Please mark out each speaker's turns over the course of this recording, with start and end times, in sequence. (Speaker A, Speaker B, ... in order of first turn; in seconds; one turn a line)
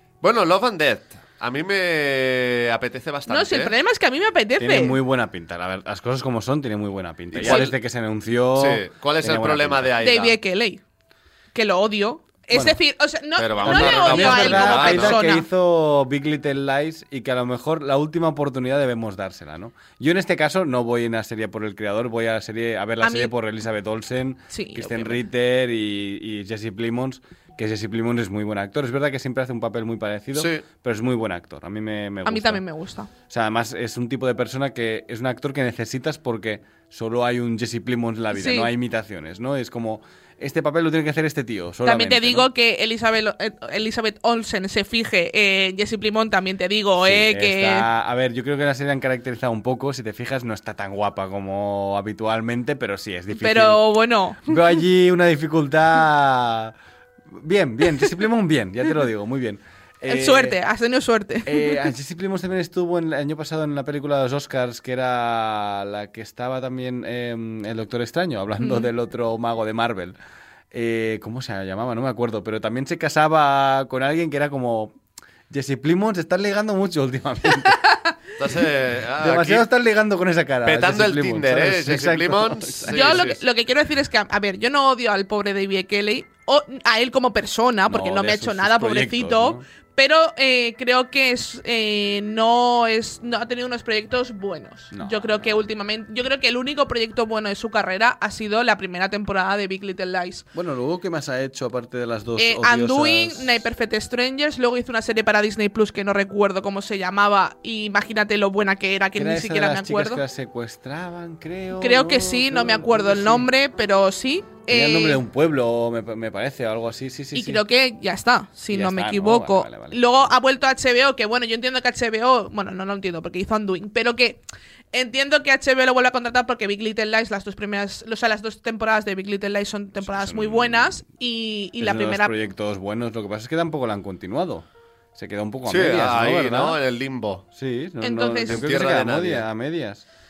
Speaker A: 0.2-3.7
Speaker B: 3.3-5.0
Speaker C: 4.6-9.9
Speaker A: 7.3-7.7
Speaker B: 7.4-7.7
Speaker A: 8.5-10.4
Speaker B: 10.0-10.8
Speaker B: 11.5-15.4
Speaker C: 12.5-12.8
Speaker A: 13.4-15.2
Speaker C: 13.6-32.6
Speaker B: 23.0-23.3
Speaker B: 24.5-25.2
Speaker A: 30.3-30.6
Speaker B: 32.2-33.1
Speaker C: 33.3-42.5
Speaker B: 38.3-38.7
Speaker B: 41.8-47.9
Speaker C: 47.0-53.8
Speaker B: 53.3-54.7
Speaker C: 54.4-56.7
Speaker C: 57.3-60.5
Speaker B: 60.0-61.8
Speaker C: 61.5-70.2
Speaker B: 68.6-68.9
Speaker C: 70.7-74.9
Speaker C: 75.5-77.8
Speaker A: 78.4-79.7
Speaker C: 79.2-83.3
Speaker A: 80.6-83.4
Speaker B: 82.9-100.5
Speaker C: 87.9-89.6
Speaker C: 94.9-95.7
Speaker C: 100.5-103.6
Speaker B: 102.4-110.2
Speaker C: 109.2-113.5
Speaker B: 111.7-115.2
Speaker C: 114.7-117.6
Speaker B: 117.3-132.3
Speaker C: 118.7-120.3
Speaker C: 130.0-131.0
Speaker C: 131.8-136.8
Speaker A: 135.6-137.4
Speaker C: 137.5-140.0
Speaker B: 138.0-138.6
Speaker A: 138.5-139.4